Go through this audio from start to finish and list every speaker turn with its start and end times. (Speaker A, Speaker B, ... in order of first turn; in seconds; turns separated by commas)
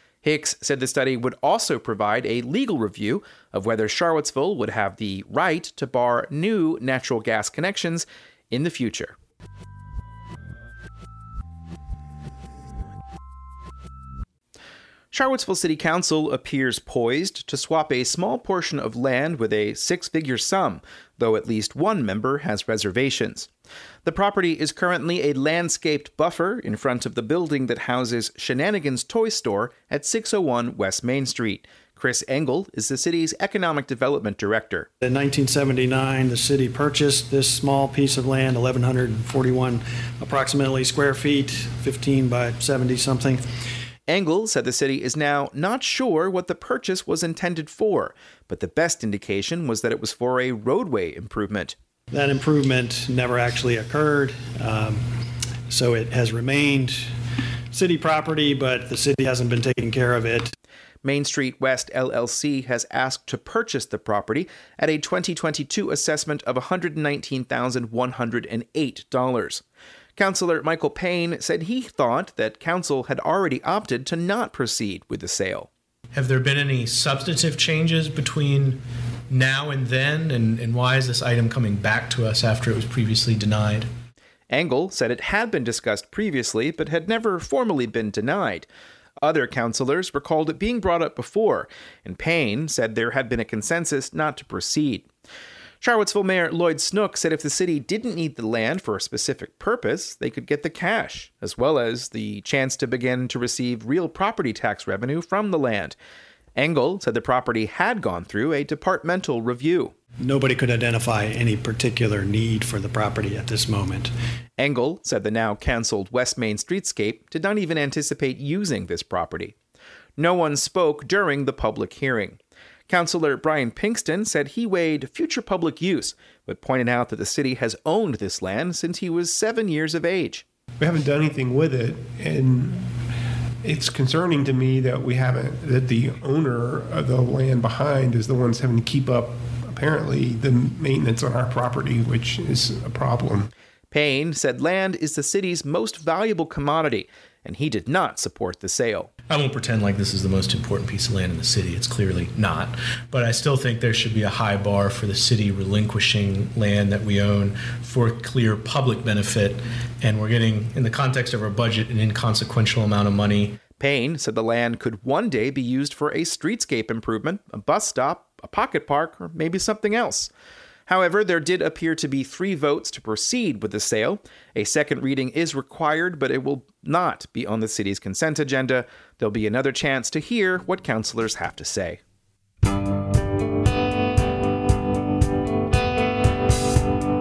Speaker A: 0.2-9.2, Speaker A: 15.1-23.5, Speaker A: 24.1-34.9, Speaker B: 35.0-43.4, Speaker A: 44.1-51.8, Speaker B: 52.1-55.0, Speaker B: 55.7-57.0, Speaker B: 57.7-60.5, Speaker A: 61.0-69.6, Speaker A: 70.2-75.7, Speaker C: 76.1-78.8, Speaker C: 79.3-83.9, Speaker A: 84.5-88.7, Speaker A: 89.2-95.1, Speaker A: 95.8-106.0, Speaker A: 106.6-109.9, Speaker B: 110.2-114.1, Speaker A: 114.6-119.5, Speaker A: 120.2-130.4, Speaker D: 130.8-132.9, Speaker D: 133.6-143.5, Speaker A: 143.9-149.1, Speaker C: 149.3-163.6, Speaker A: 163.8-170.3, Speaker A: 170.9-182.0